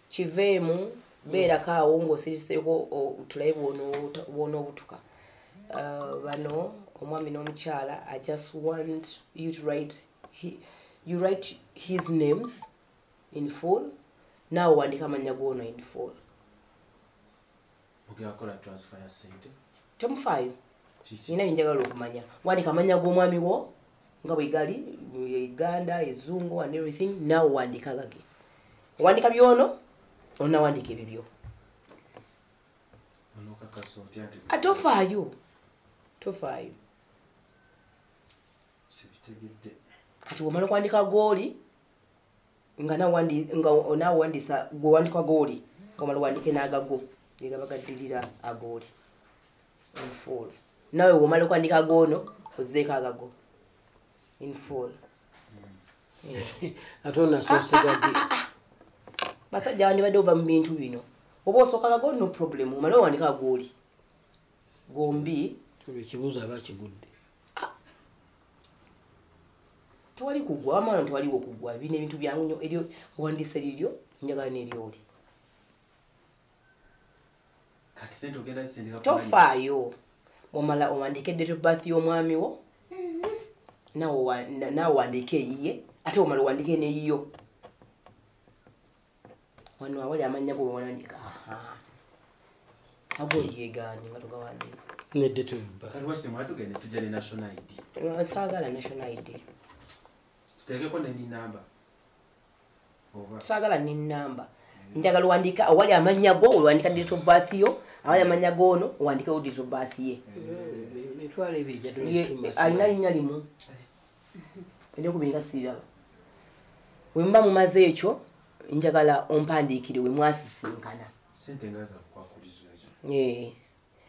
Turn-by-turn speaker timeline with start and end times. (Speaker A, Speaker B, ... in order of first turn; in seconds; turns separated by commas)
Speaker A: 0.1-5.0, Speaker A: 5.7-12.7, Speaker A: 13.3-13.9, Speaker A: 14.5-16.2, Speaker B: 18.1-19.6, Speaker A: 20.0-20.6, Speaker B: 21.0-21.4, Speaker A: 21.3-23.7, Speaker A: 24.2-28.2, Speaker A: 29.0-29.8, Speaker A: 30.4-31.3, Speaker B: 33.3-35.0, Speaker A: 34.5-35.4, Speaker A: 36.2-36.8, Speaker B: 38.9-39.8, Speaker A: 40.3-41.6, Speaker A: 42.8-48.9, Speaker A: 50.0-53.3, Speaker A: 54.4-55.0, Speaker A: 56.2-56.6, Speaker C: 56.4-58.3, Speaker A: 57.5-58.4, Speaker A: 59.5-63.7, Speaker A: 64.9-65.6, Speaker C: 65.8-67.1, Speaker A: 70.2-75.0, Speaker B: 78.0-79.6, Speaker A: 79.0-80.0, Speaker A: 80.5-82.6, Speaker A: 84.0-87.3, Speaker A: 89.8-91.8, Speaker A: 93.2-94.9, Speaker C: 95.1-96.0, Speaker B: 95.9-97.8, Speaker A: 98.0-99.4, Speaker B: 100.6-101.7, Speaker B: 103.1-103.5, Speaker A: 103.4-110.2, Speaker B: 110.3-111.0, Speaker C: 110.3-113.0, Speaker A: 112.0-113.5, Speaker A: 115.0-115.8, Speaker A: 117.1-121.1, Speaker B: 121.3-123.0, Speaker A: 123.0-123.6